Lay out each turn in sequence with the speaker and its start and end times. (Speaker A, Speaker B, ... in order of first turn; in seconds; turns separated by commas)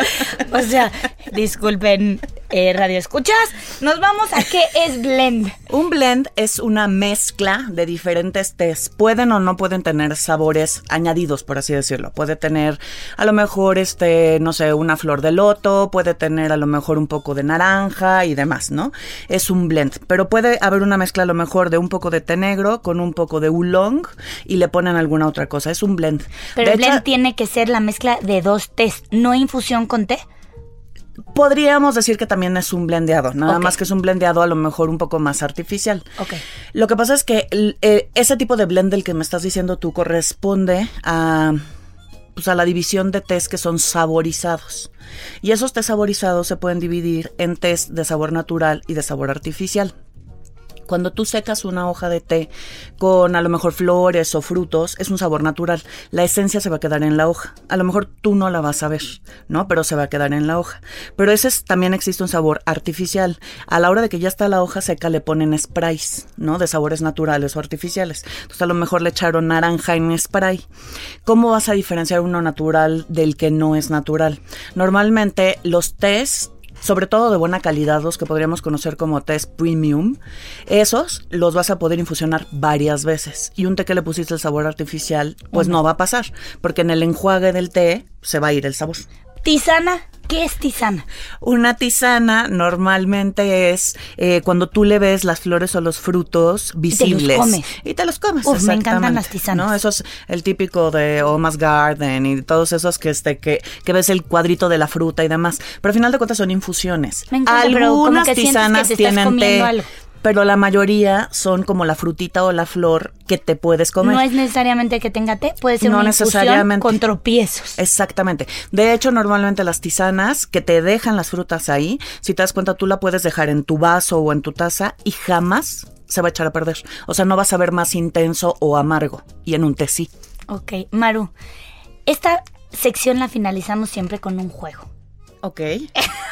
Speaker A: 0.2-5.5, Speaker B: 5.7-27.0, Speaker A: 26.6-30.2, Speaker B: 31.3-36.0, Speaker A: 33.5-33.8, Speaker B: 36.7-41.6, Speaker B: 42.3-44.9, Speaker B: 45.4-49.9, Speaker B: 50.9-70.6, Speaker B: 71.2-89.0, Speaker A: 85.5-85.8, Speaker A: 89.4-91.0, Speaker B: 91.4-114.3, Speaker A: 96.9-97.7, Speaker A: 98.4-99.7, Speaker A: 107.3-109.9, Speaker A: 114.0-117.8, Speaker B: 115.8-117.0, Speaker B: 117.8-130.1, Speaker A: 130.5-131.3, Speaker A: 132.1-134.9, Speaker B: 135.4-135.9